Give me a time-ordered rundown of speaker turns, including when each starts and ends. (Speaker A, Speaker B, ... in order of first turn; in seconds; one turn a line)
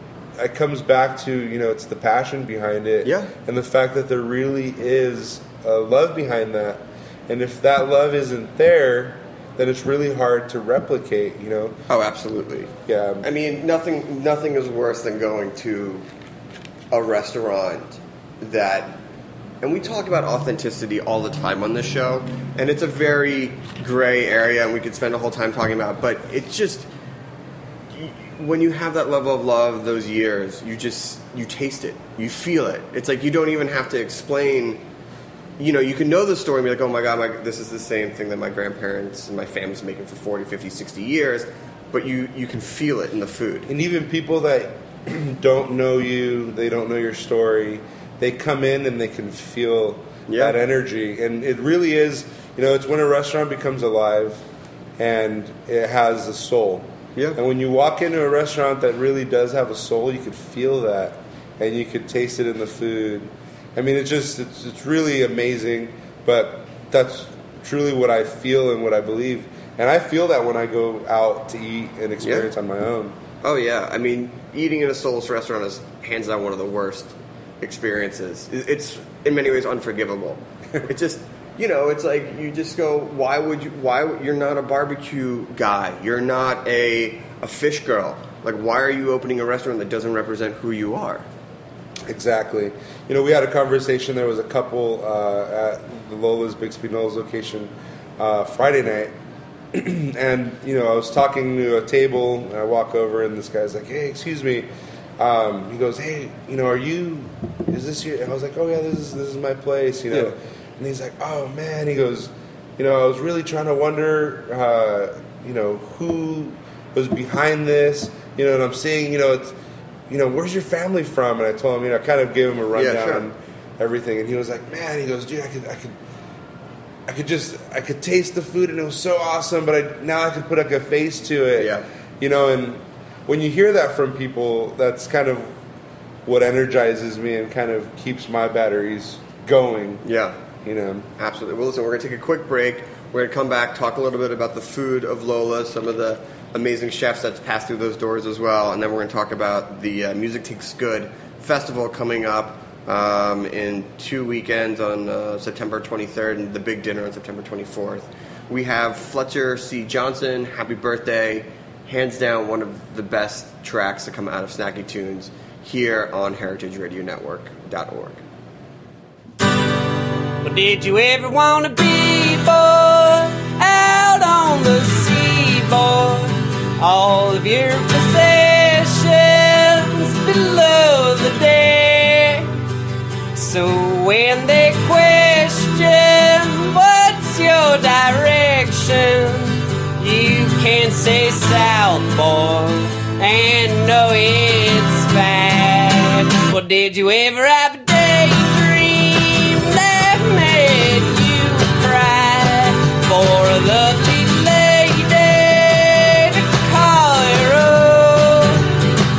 Speaker A: 0.4-11.8
Speaker B: 3.0-3.3
Speaker B: 11.9-16.1
Speaker A: 12.9-13.2
Speaker B: 16.9-19.0
Speaker B: 19.6-26.9
Speaker B: 27.9-34.8
Speaker B: 35.6-43.7
Speaker A: 43.7-54.4
Speaker B: 50.3-50.6
Speaker A: 55.0-73.2
Speaker B: 72.2-72.5
Speaker B: 73.4-91.3
Speaker A: 92.1-99.1
Speaker A: 99.7-119.6
Speaker A: 120.1-126.0
Speaker B: 122.7-123.3
Speaker A: 127.1-135.6
Speaker B: 131.6-131.9
Speaker A: 136.2-140.0
Speaker B: 140.0-140.4
Speaker A: 140.6-141.1
Speaker B: 141.2-168.2
Speaker C: 170.4-182.5
Speaker C: 183.3-208.7